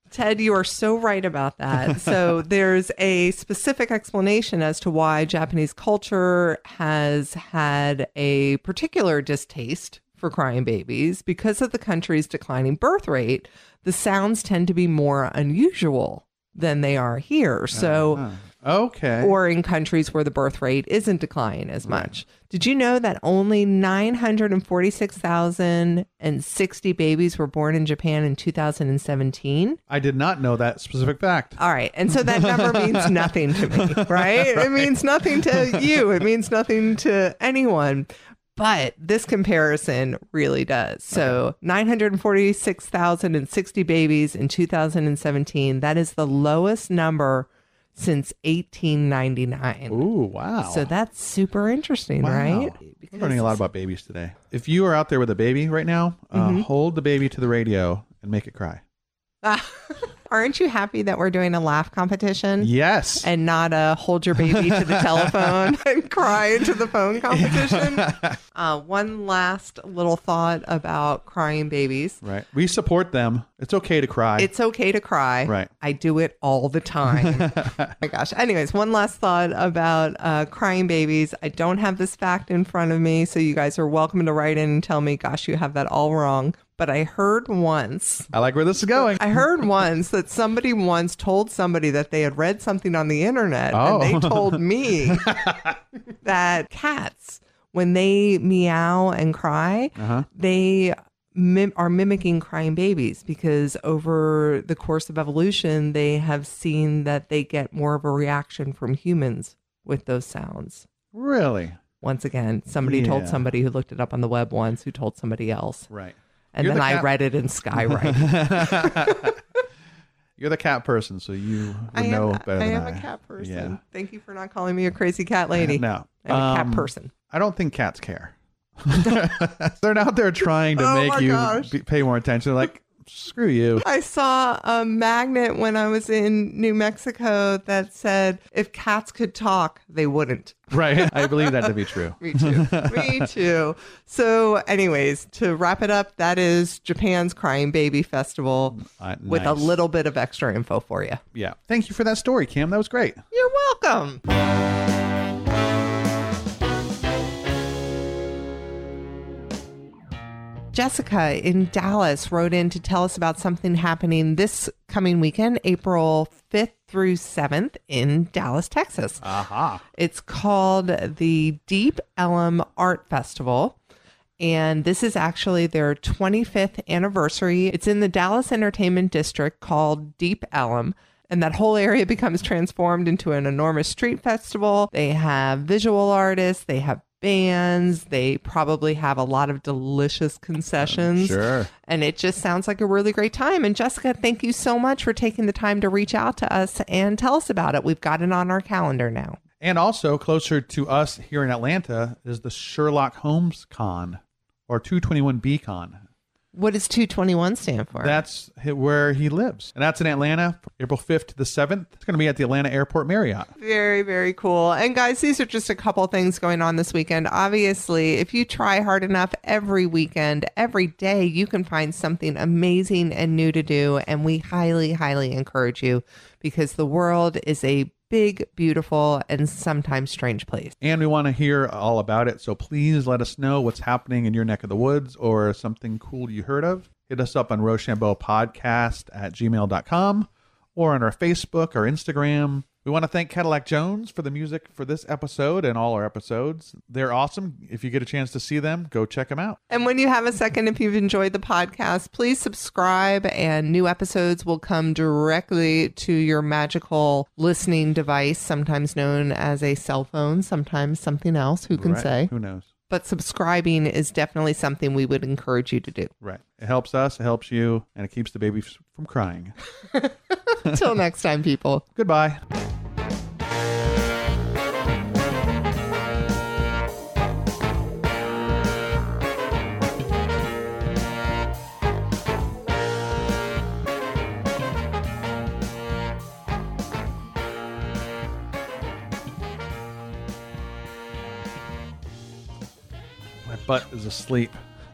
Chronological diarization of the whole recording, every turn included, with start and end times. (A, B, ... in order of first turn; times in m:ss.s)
0:00.1-0:18.2 A
0:17.7-0:19.3 B
0:19.2-0:29.8 A
0:29.9-0:31.6 B
0:31.6-0:50.0 A
0:32.1-0:34.9 B
0:35.5-0:35.8 B
0:49.9-0:50.9 B
0:50.6-0:53.6 A
0:52.2-0:58.8 B
0:56.3-0:56.6 A
0:59.4-1:02.7 A
1:02.6-1:03.3 B
1:03.2-1:12.2 A
1:04.4-1:05.7 B
1:07.3-1:08.4 B
1:12.2-1:14.5 B
1:14.4-1:28.3 A
1:17.1-1:17.9 B
1:28.3-1:29.4 B
1:29.1-1:35.4 A
1:33.7-1:35.8 B
1:36.2-1:50.8 A
1:40.0-1:40.3 B
1:51.1-1:51.8 B
1:52.0-1:55.9 A
1:52.8-1:53.4 B
1:55.9-1:57.1 B
1:56.5-1:59.3 A
1:57.7-1:59.3 B
2:00.4-2:03.8 B
2:01.9-2:07.1 A
2:05.6-2:13.8 B
2:10.7-2:11.7 A
2:13.8-2:31.2 A
2:20.7-2:23.3 B
2:28.8-2:29.8 B
2:31.3-2:33.2 B
2:33.3-2:34.2 A
2:40.7-2:49.2 A
2:49.2-2:49.8 B
2:49.9-2:53.8 A
2:54.4-3:19.4 A
3:10.8-3:11.7 B
3:19.6-3:26.0 B
3:26.5-3:28.2 A
3:28.0-3:33.5 B
3:33.6-3:50.7 A
3:50.8-4:09.6 B
4:09.7-4:22.3 A
4:21.7-4:22.7 B
4:22.9-4:26.1 A
4:26.2-4:29.5 B
4:29.9-4:31.8 A
4:32.0-4:32.4 B
4:53.4-4:54.6 B